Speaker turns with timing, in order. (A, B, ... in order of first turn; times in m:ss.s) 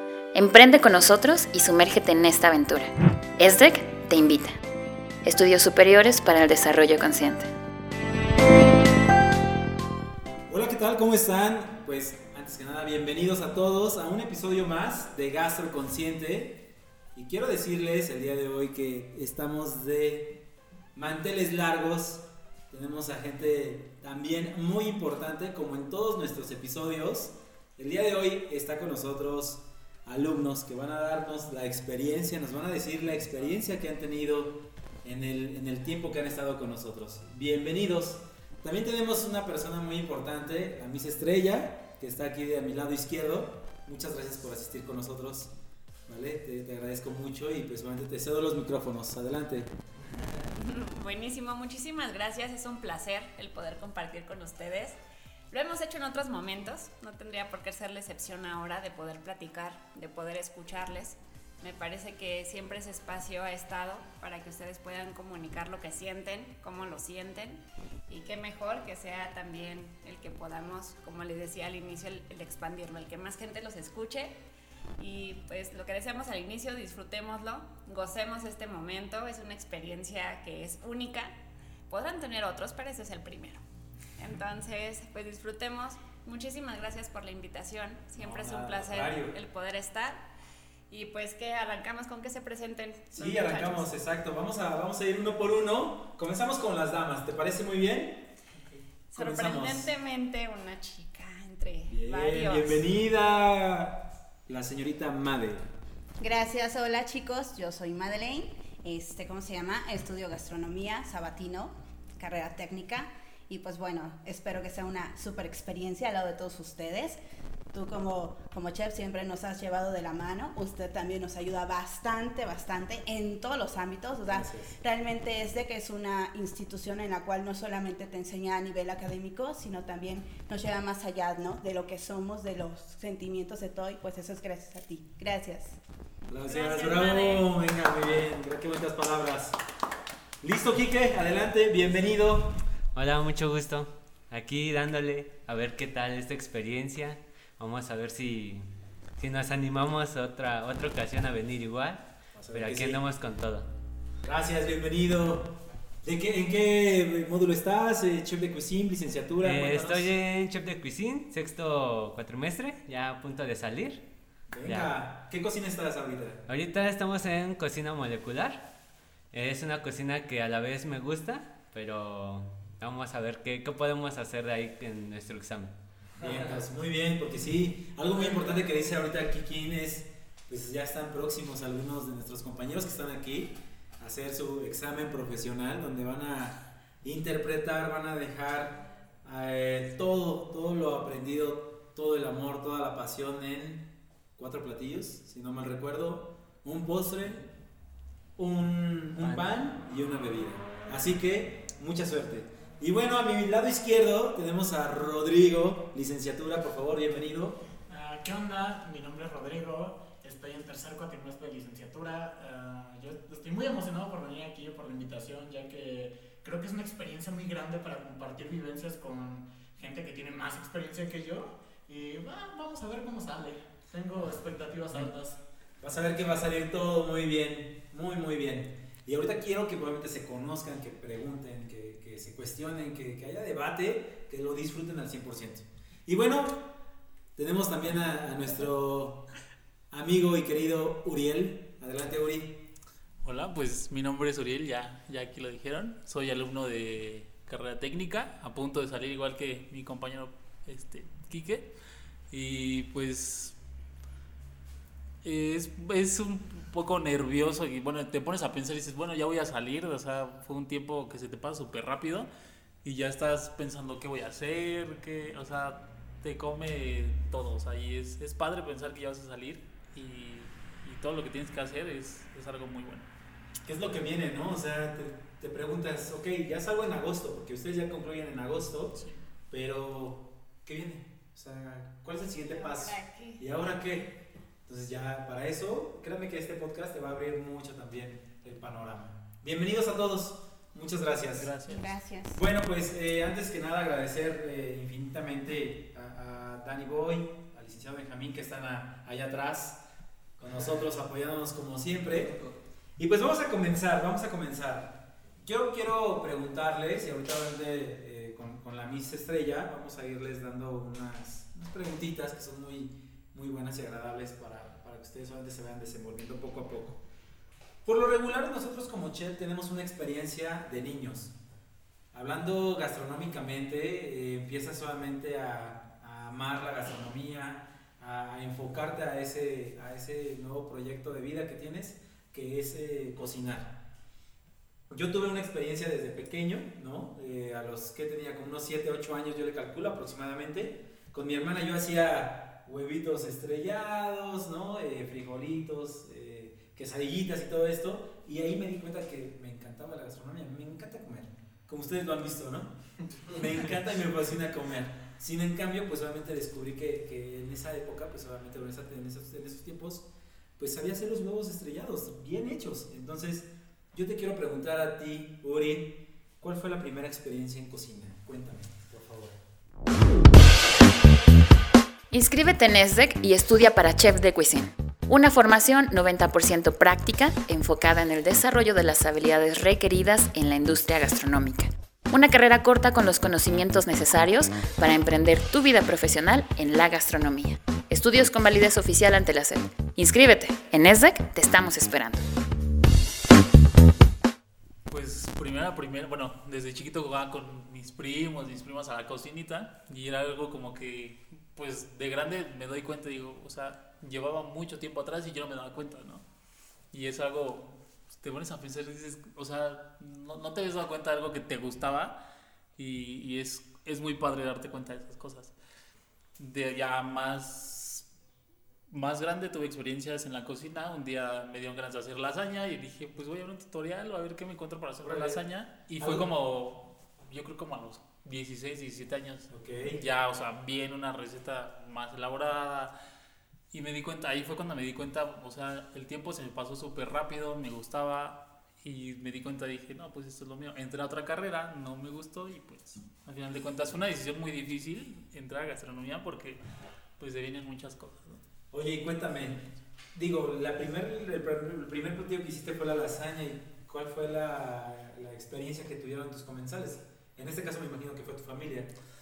0:00.4-0:04.6 A
0:05.2-0:07.5 A
0:10.5-0:20.4 B
0:21.0-0:45.5 B
0:46.1-0:49.7 B
0:50.6-0:55.0 C
0:55.5-1:14.4 C
1:15.0-1:21.3 C
1:21.9-1:23.6 C
1:24.2-1:30.2 C
1:28.1-1:29.3 B
1:30.9-1:33.9 C
1:33.1-1:38.2 B
1:39.1-1:42.8 C
1:39.1-1:39.9 B
1:41.9-1:45.7 B
1:46.2-1:57.2 D
1:57.7-2:15.8 D
2:04.3-2:04.7 B
2:16.3-2:19.6 B
2:16.5-2:17.5 C
2:20.4-2:22.6 B
2:22.9-2:28.7 E
2:29.2-2:33.7 E
2:32.3-2:33.0 B
2:34.2-2:40.1 B
2:39.4-2:44.0 E
2:44.5-2:46.4 B
2:44.6-2:44.9 E
2:46.5-2:48.6 E
2:49.3-2:56.5 E
2:56.2-3:17.4 B
3:18.4-3:27.6 B
3:27.9-3:45.4 F
3:45.8-3:56.7 B
3:57.4-3:59.2 B
3:59.9-4:02.6 B
4:03.2-4:11.7 G
4:12.3-4:13.6 G
4:15.2-4:22.3 G
4:22.8-4:33.1 G
4:33.6-4:39.0 B
4:39.5-4:51.5 B
4:42.4-4:43.4 C
4:51.4-4:51.8 G
4:51.6-4:52.4 D
4:52.3-4:59.8 B
5:00.4-5:02.4 B
5:03.0-5:17.0 B
5:17.8-5:21.4 B
5:22.1-5:33.8 B
5:34.9-6:00.1 B
6:00.6-6:09.4 B
6:12.1-6:32.3 A
6:34.9-6:46.2 G
6:46.9-6:52.2 G
6:52.8-6:55.5 G
6:56.4-6:58.1 G
6:58.9-7:12.9 G
7:05.0-7:05.4 B
7:06.0-7:06.3 B
7:09.5-7:10.0 B
7:13.7-7:26.6 G
7:27.2-7:28.4 G
7:28.7-7:29.6 B
7:30.1-7:38.9 B